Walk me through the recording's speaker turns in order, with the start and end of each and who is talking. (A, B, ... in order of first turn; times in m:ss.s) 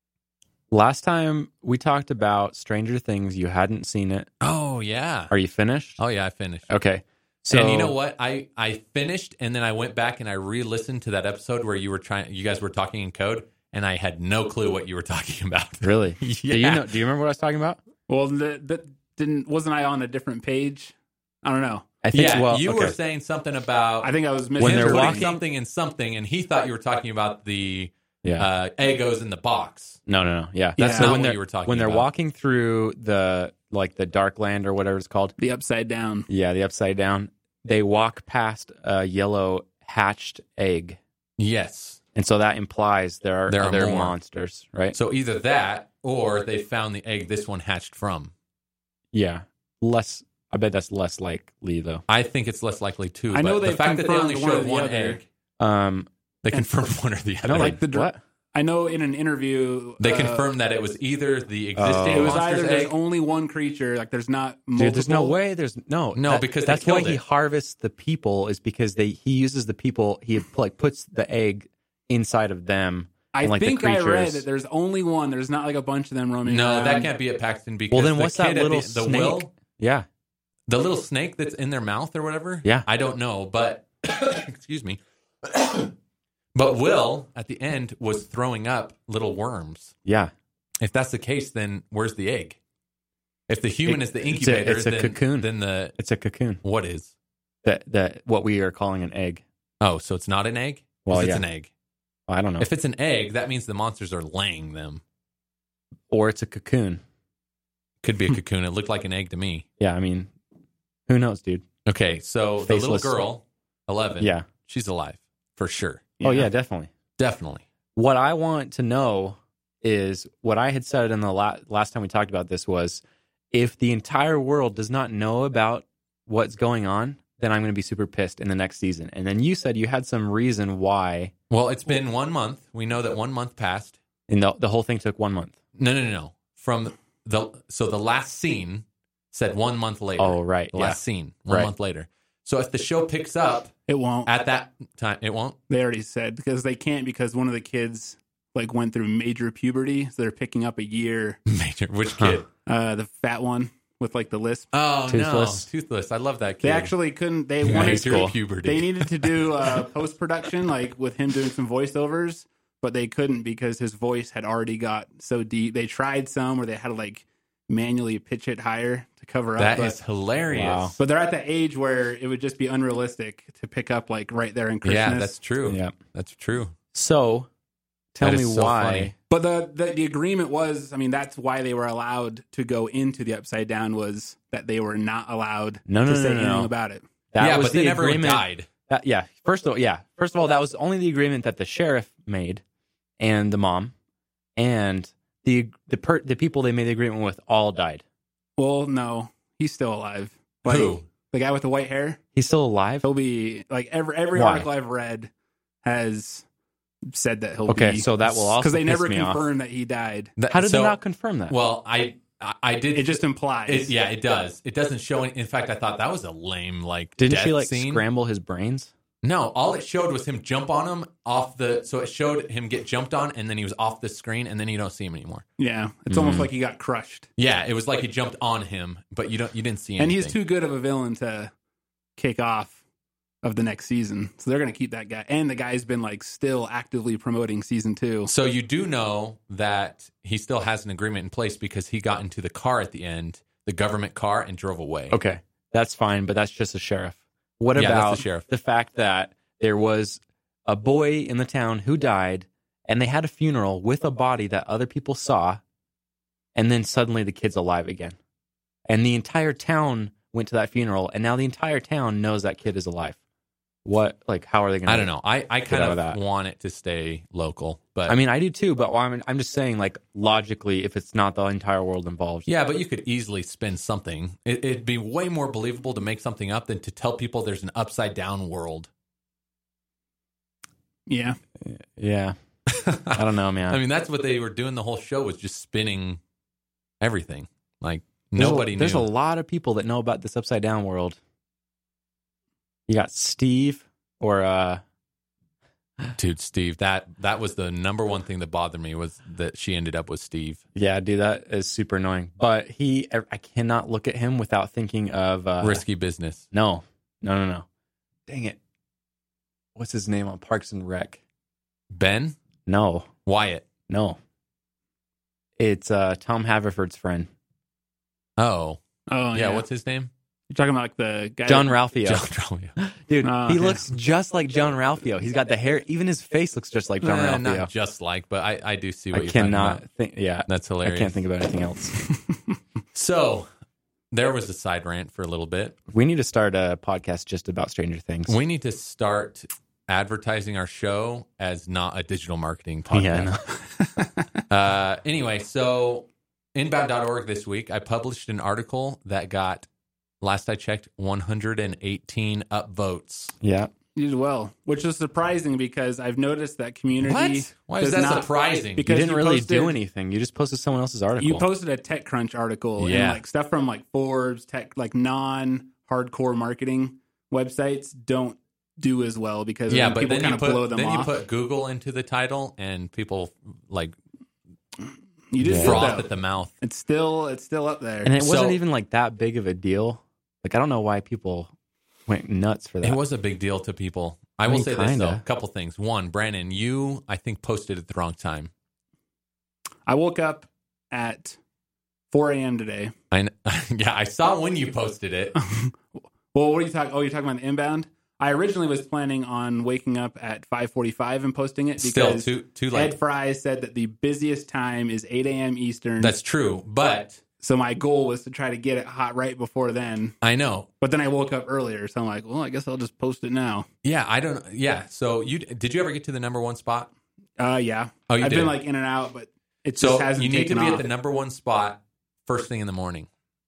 0:00.7-0:04.3 A
0:04.4-0:05.3 B
0:05.3-0:06.0 A
0:06.0-0:06.7 B
0:06.7-0:07.9 A
0:07.5-0:16.9 B
0:15.8-0:17.8 A
0:18.1-0:21.9 C
0:22.0-0:22.9 A
0:22.1-0:30.0 B
0:24.0-0:25.3 C
0:24.6-0:25.4 A
0:30.1-0:35.3 A
0:30.8-0:32.1 B
0:30.8-0:31.2 C
0:35.4-0:36.3 C
0:36.3-0:41.0 A
0:41.4-0:42.0 B
0:42.1-0:45.0 A
0:43.5-0:44.2 B
0:44.9-0:48.3 B
0:49.1-0:52.0 A
0:52.1-0:55.2 B
0:53.3-0:55.2 C
0:55.6-0:56.1 A
0:56.4-0:57.8 B
0:56.5-0:56.8 C
0:57.4-0:58.2 A
0:57.5-1:00.5 C
1:00.0-1:02.9 B
1:01.8-1:02.4 A
1:02.0-1:05.3 C
1:04.8-1:14.4 A
1:06.1-1:07.2 B
1:13.3-1:17.1 C
1:16.4-1:19.5 B
1:17.9-1:20.0 A
1:20.7-1:25.9 B
1:26.5-1:29.9 B
1:30.0-1:30.3 A
1:30.8-1:32.6 B
1:33.5-1:36.0 B
1:33.8-1:36.6 A
1:36.6-1:37.1 B
1:37.6-1:39.4 A
1:39.8-1:41.7 B
1:41.0-1:41.4 A
1:42.3-1:42.7 A
1:42.6-1:45.0 B
1:46.1-1:47.0 A
1:48.0-1:49.6 B
1:49.8-1:50.3 A
1:51.1-1:51.6 A
1:51.8-1:56.4 B
1:52.6-1:53.2 A
1:54.2-1:54.4 A
1:56.2-1:56.9 A
1:57.2-1:57.6 B
1:58.0-2:11.3 A
2:11.5-2:14.0 B
2:14.3-2:15.5 A
2:15.8-2:23.7 B
2:20.2-2:21.7 A
2:23.9-2:24.3 C
2:24.2-2:25.6 B
2:25.7-2:31.4 C
2:31.5-2:32.4 B
2:32.6-2:34.7 C
2:34.7-2:36.9 B
2:35.1-2:35.7 A
2:36.6-2:50.0 C
2:37.6-2:39.8 B
2:37.6-2:38.3 A
2:49.6-2:51.0 B
2:50.5-2:51.0 A
2:51.0-2:55.4 C
2:54.8-2:56.7 B
2:55.6-2:55.9 A
2:56.9-2:57.5 A
2:58.1-2:59.1 A
2:58.2-2:59.1 B
2:59.3-3:07.0 C
3:05.9-3:06.7 A
3:07.3-3:12.6 A
3:07.4-3:08.7 B
3:13.2-3:13.9 A
3:14.6-3:18.0 A
3:18.6-3:22.2 C
3:20.6-3:21.0 B
3:22.4-3:23.0 A
3:23.0-3:25.3 C
3:24.3-3:24.7 A
3:25.8-3:26.4 C
3:27.1-3:30.3 C
3:27.7-3:29.4 A
3:30.4-3:31.0 B
3:30.5-3:31.5 A
3:31.5-3:38.0 B
3:32.9-3:33.9 C
3:37.2-3:38.9 A
3:39.2-3:45.4 B
3:45.6-3:47.3 C
3:46.1-3:46.5 A
3:47.4-3:50.4 B
3:50.0-3:51.5 C
3:52.2-3:52.8 C
3:53.4-3:58.3 C
3:58.2-4:05.2 B
4:05.1-4:15.6 A
4:07.7-4:08.4 B
4:16.5-4:18.2 A
4:18.9-4:23.2 A
4:23.8-4:25.1 A
4:24.8-4:28.2 B
4:25.7-4:26.2 A
4:28.1-4:32.5 A
4:32.4-4:38.9 B
4:41.1-4:41.4 C
4:41.6-4:42.3 A
4:42.7-4:46.2 B
4:43.1-4:43.8 A
4:47.0-4:49.1 B
4:48.4-4:51.2 A
4:52.9-4:54.8 A
4:56.2-5:00.6 B
5:00.7-5:05.8 A
5:05.6-5:06.4 B
5:06.5-5:07.6 A
5:08.3-5:08.6 A
5:09.7-5:11.2 A
5:11.9-5:12.4 B
5:12.7-5:13.1 A
5:13.2-5:13.7 B
5:13.9-5:14.2 A
5:15.6-5:17.3 A
5:18.4-5:18.8 B
5:19.1-5:19.6 C
5:19.3-5:20.1 B
5:20.5-5:21.8 C
5:21.4-5:22.3 A
5:22.0-5:22.8 B
5:22.8-5:27.7 A
5:23.2-5:23.9 C
5:27.0-5:29.8 B
5:29.1-5:31.9 A
5:30.5-5:31.2 B
5:32.9-5:33.5 B
5:34.1-5:35.8 B
5:35.9-5:38.4 A
5:38.3-5:43.3 B
5:42.9-5:43.4 A
5:43.8-5:44.1 C
5:44.5-5:49.7 B
5:50.2-5:53.3 B
5:53.4-5:53.7 A
5:53.9-5:59.8 C
5:57.0-5:58.8 B
5:58.9-6:01.5 A
6:01.2-6:11.1 C
6:02.8-6:03.2 B
6:09.7-6:14.0 B
6:15.3-6:16.1 C
6:15.4-6:15.8 A
6:15.6-6:16.5 B
6:16.6-6:18.1 C
6:18.0-6:21.5 A
6:18.2-6:18.6 B
6:22.1-6:23.0 A
6:22.8-6:28.5 B
6:24.5-6:25.2 A
6:29.9-6:31.4 C
6:32.1-6:32.9 C
6:33.1-6:35.3 B
6:35.4-6:35.8 C
6:36.3-6:46.2 C
6:41.8-6:43.0 B
6:46.0-6:47.2 B
6:47.4-6:50.2 C
6:50.2-6:50.7 B
6:50.8-6:53.7 C
6:53.8-6:56.9 B
6:57.4-7:00.8 C
6:58.1-6:58.6 B
6:59.8-7:03.1 B